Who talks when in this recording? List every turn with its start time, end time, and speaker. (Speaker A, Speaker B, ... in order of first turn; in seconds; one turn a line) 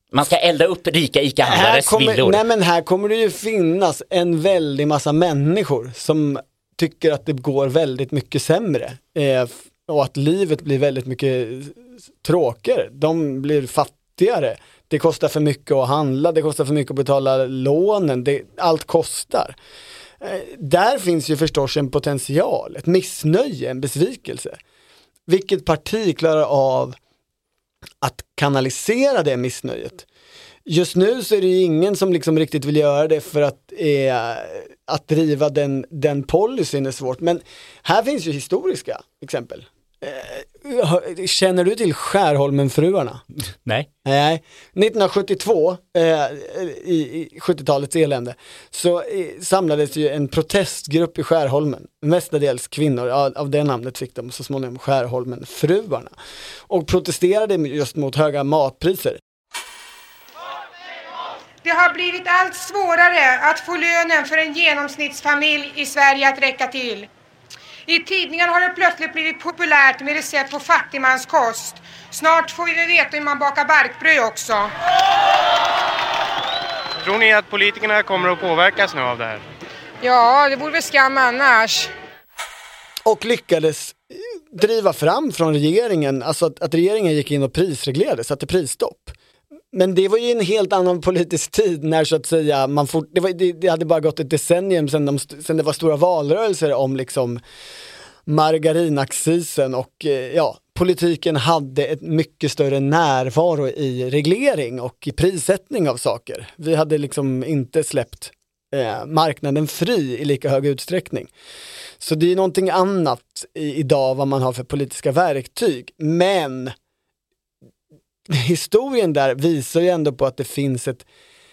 Speaker A: 0.1-2.4
Speaker B: 1.4-19.6
Speaker B: 20.2-24.6
Speaker B: 25.3-27.0
Speaker B: 28.0-30.1
Speaker B: 30.7-43.2
Speaker B: 44.0-56.1
Speaker B: 56.7-59.2
Speaker C: 61.6-67.1
Speaker C: 67.9-74.7
Speaker D: 77.0-79.4
Speaker C: 80.0-81.9
Speaker B: 83.0-89.2
Speaker B: 89.7-97.4
Speaker B: 98.3-111.3
Speaker B: 112.0-116.8
Speaker B: 118.3-121.0